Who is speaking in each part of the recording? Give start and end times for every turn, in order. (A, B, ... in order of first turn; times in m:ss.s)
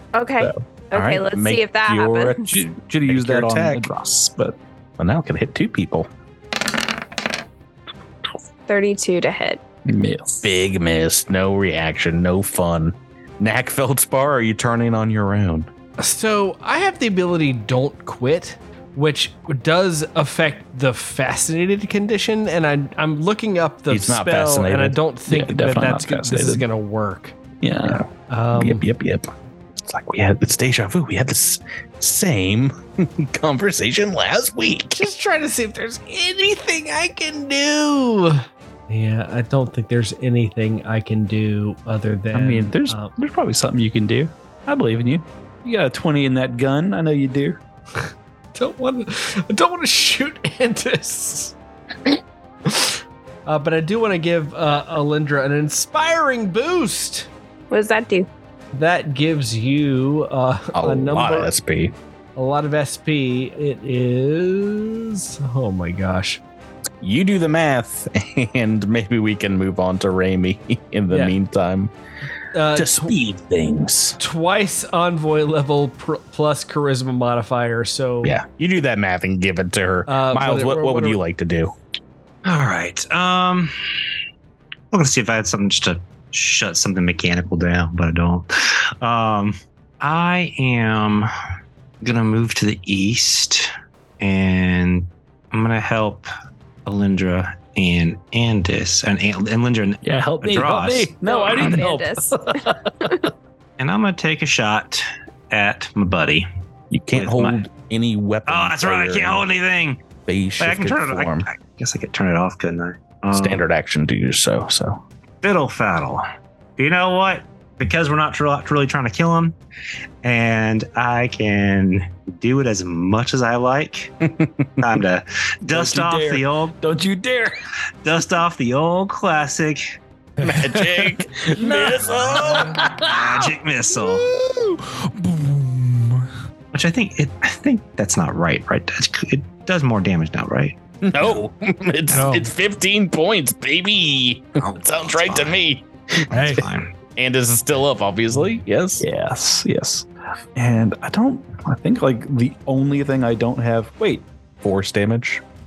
0:00.1-0:02.6 A
0:00.9-0:02.5 B
0:02.4-0:04.6 C
0:03.1-0:03.9 B
0:05.0-0:06.1 B
0:08.7-0:09.6 A
0:09.8-0:10.5 C
0:10.4-0:15.7 B
0:16.0-0:27.4 D
0:23.9-0:25.0 B
0:25.3-0:26.6 C
0:27.6-0:28.0 C
0:27.8-0:35.1 B
0:28.3-0:28.8 D
0:35.0-0:43.1 D
0:42.3-0:47.6 C
0:48.6-0:51.5 D
0:52.6-0:57.3 D
0:57.7-0:58.3 A
0:58.7-1:01.5 D
1:00.7-1:01.9 B
1:02.4-1:06.4 D
1:07.0-1:11.9 B
1:12.5-1:13.1 D
1:12.7-1:14.2 B
1:14.2-1:18.4 D
1:18.2-1:21.7 B
1:20.1-1:21.2 D
1:22.4-1:23.7 E
1:24.9-1:31.3 E
1:32.0-1:36.3 E
1:36.8-1:41.8 E
1:40.0-1:43.3 C
1:41.2-1:42.7 A
1:43.8-1:46.5 E
1:46.9-1:49.4 B
1:47.1-1:47.6 E
1:48.5-1:50.0 E
1:50.3-1:51.5 B
1:50.6-1:53.6 E
1:53.3-1:55.0 B
1:55.4-1:56.2 E
1:56.8-1:59.6 E
2:00.2-2:04.1 E
2:04.2-2:04.7 B
2:04.8-2:06.8 E
2:05.7-2:07.6 C
2:08.0-2:09.8 E
2:10.4-2:11.1 F
2:10.4-2:12.8 B
2:11.6-2:13.5 C
2:12.3-2:14.3 E
2:14.0-2:16.3 F
2:16.7-2:20.8 E
2:21.0-2:26.4 B
2:22.1-2:22.5 F
2:24.6-2:25.6 E
2:26.3-2:26.6 F
2:26.3-2:26.9 E
2:27.2-2:29.1 B
2:29.0-2:34.3 C
2:34.6-2:35.4 B